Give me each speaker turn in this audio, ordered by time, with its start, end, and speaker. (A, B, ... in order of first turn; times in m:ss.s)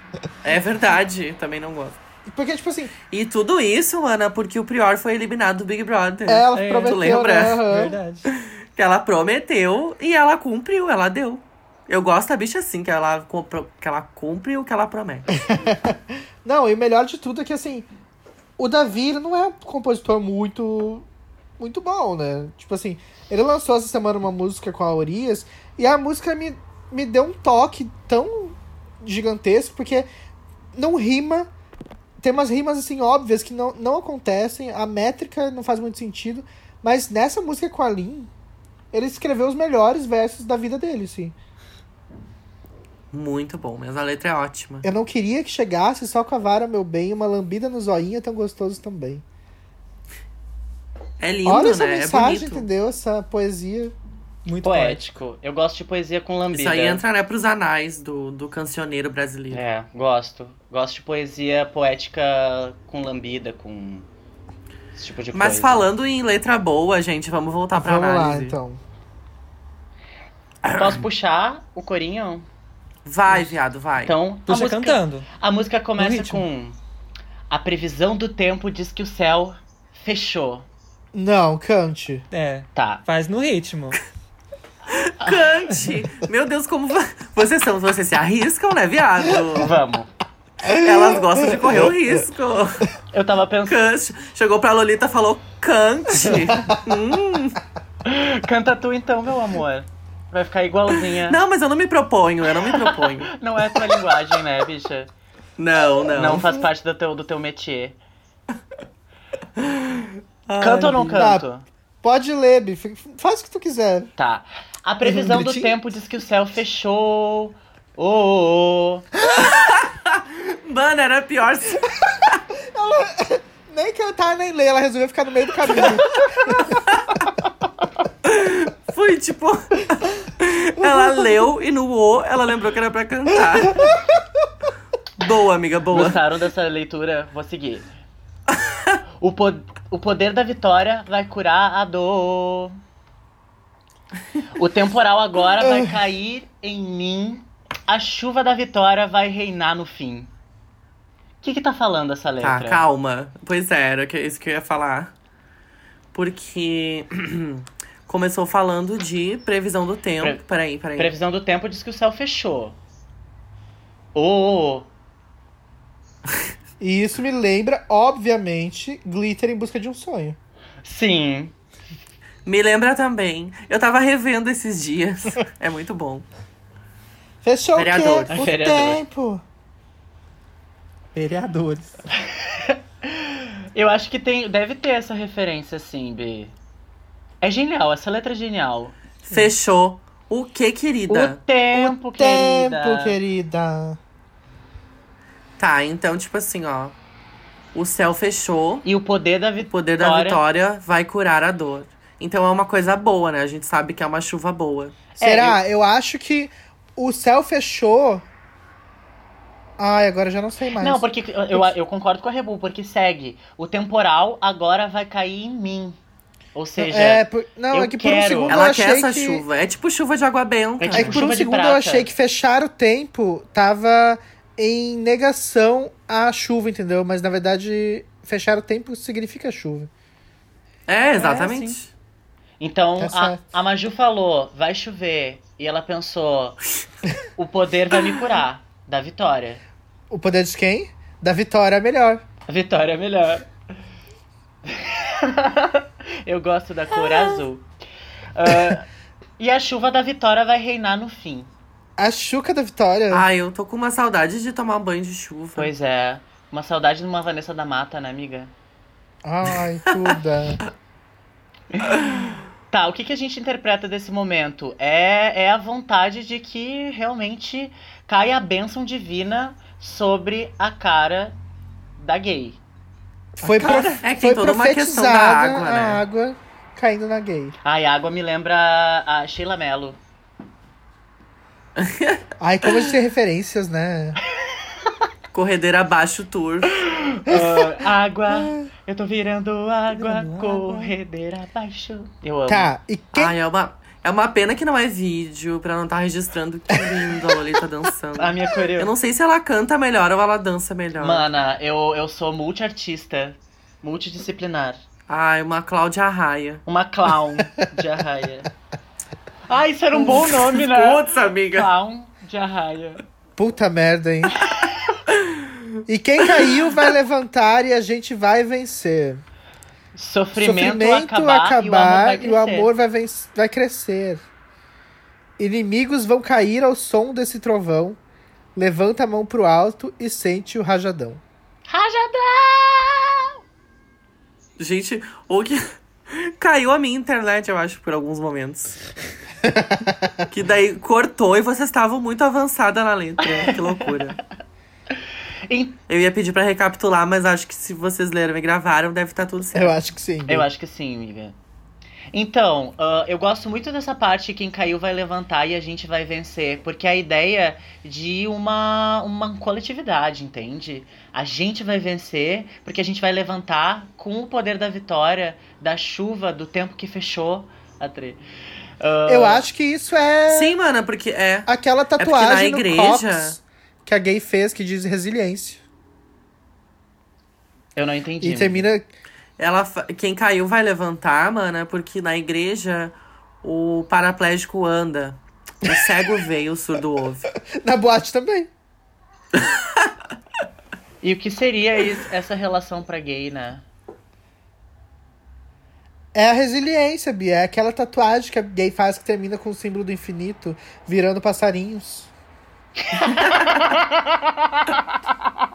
0:00.4-0:02.0 A
0:02.2-0:02.9 B
0:03.1-0:07.6 A
0:06.3-0:08.0 B
0:06.5-0:08.3 C
0:08.8-0:15.3 A
0:15.4-0:17.9 B
0:18.6-0:21.1 B
0:21.6-0:30.1 B
0:30.7-0:31.5 B
0:32.2-0:38.3 B
0:38.9-0:41.3 B
0:43.1-0:44.9 A
0:44.8-0:49.2 B
0:51.2-0:52.6 A
0:51.4-0:53.9 B
0:54.4-0:55.0 C
0:54.6-0:57.0 D
0:56.5-0:59.6 A
0:59.5-1:04.1 D
1:05.0-1:05.9 D
1:05.3-1:08.6 A
1:07.7-1:08.8 B
1:10.6-1:11.0 A
1:10.7-1:12.4 D
1:13.0-1:14.1 A
1:14.0-1:16.8 D
1:14.5-1:15.3 C
1:16.0-1:16.4 C
1:17.5-1:20.6 D
1:21.1-1:22.3 B
1:22.3-1:24.0 C
1:22.7-1:23.0 D
1:24.9-1:29.8 A
1:29.6-1:30.1 D
1:30.6-1:31.9 B
1:30.6-1:32.9 A
1:33.1-1:33.8 D
1:33.7-1:37.6 A
1:38.0-1:41.4 D
1:41.1-1:43.4 A
1:42.6-1:45.1 D
1:45.6-1:46.5 A
1:46.1-1:48.0 D
1:49.6-1:51.2 A
1:50.6-1:51.6 D
1:51.1-1:51.4 B
1:52.0-1:54.1 B
1:54.2-1:59.1 D
1:55.1-1:55.7 B
1:59.3-2:02.4 A
2:02.5-2:06.8 B
2:05.7-2:07.2 A
2:08.2-2:14.0 A
2:10.8-2:11.3 B
2:13.4-2:14.2 B
2:15.2-2:16.2 A
2:15.9-2:17.9 D
2:18.5-2:19.0 A
2:19.2-2:22.8 D
2:24.5-2:30.3 D
2:25.6-2:25.9 B
2:31.4-2:32.8 D
2:32.4-2:35.1 A
2:36.1-2:41.1 A
2:41.0-2:42.8 D
2:44.1-2:44.9 D
2:46.8-2:50.4 B
2:50.8-2:51.5 D
2:52.4-2:56.2 A
2:57.4-2:59.4 B
2:57.8-2:58.3 A
2:58.3-2:59.0 D
3:01.1-3:01.9 C
3:02.3-3:06.5 D
3:07.4-3:09.0 D
3:09.2-3:11.4 A
3:11.1-3:13.2 D
3:11.7-3:14.0 B
3:15.6-3:17.0 A
3:17.7-3:18.8 A
3:18.8-3:20.4 D
3:19.7-3:25.0 A
3:25.2-3:25.6 D
3:25.2-3:28.2 B
3:29.8-3:31.7 B
3:30.8-3:36.0 D
3:36.5-3:38.6 D
3:36.8-3:39.4 B
3:38.5-3:41.2 A
3:40.8-3:42.1 D
3:40.9-3:49.9 B
3:50.9-3:51.9 A
3:51.2-3:51.7 D
3:52.6-3:56.6 D
3:53.0-3:53.4 B
3:57.4-3:59.6 D
4:00.1-4:02.2 B
4:02.5-4:03.5 D
4:04.7-4:07.7 D
4:08.3-4:11.5 D
4:12.0-4:13.2 B
4:13.1-4:15.7 A
4:15.6-4:18.5 D
4:19.2-4:20.6 B
4:19.9-4:20.1 A
4:21.7-4:22.0 D
4:22.7-4:31.4 D
4:32.0-4:32.6 D
4:33.4-4:37.6 B
4:33.4-4:34.0 C
4:33.9-4:36.0 A
4:37.6-4:40.0 D
4:41.8-4:42.9 A
4:42.4-4:44.2 B
4:45.3-4:46.8 A
4:46.9-4:52.7 D
4:47.3-4:47.6 B
4:48.3-4:48.7 B
4:49.9-4:50.9 C
4:52.5-4:53.3 B
4:53.1-5:01.2 A
4:58.2-4:58.9 D
5:01.0-5:04.8 D
5:05.1-5:06.6 A
5:06.6-5:08.5 D
5:09.5-5:13.0 D
5:10.1-5:11.7 A
5:13.4-5:14.4 B
5:14.4-5:14.8 D
5:15.2-5:15.6 A
5:15.9-5:19.2 B
5:16.4-5:16.8 A
5:19.9-5:22.7 D
5:20.4-5:24.2 B
5:25.4-5:28.0 B
5:28.6-5:31.2 B
5:31.7-5:33.3 D
5:34.6-5:38.8 A
5:39.4-5:40.1 B
5:40.3-5:44.2 A
5:43.3-5:43.6 D
5:45.5-5:45.8 D
5:45.9-5:49.8 A
5:49.5-5:50.5 B
5:50.3-5:51.4 D
5:52.1-6:08.2 D
6:08.8-6:09.4 D
6:09.0-6:10.6 B
6:10.3-6:13.4 A
6:11.5-6:15.6 B
6:17.7-6:18.7 D
6:18.2-6:18.8 B
6:19.4-6:27.3 A
6:27.5-6:28.5 B
6:31.0-6:33.6 D
6:36.1-6:42.1 B
6:42.9-6:44.8 D
6:43.0-6:43.7 A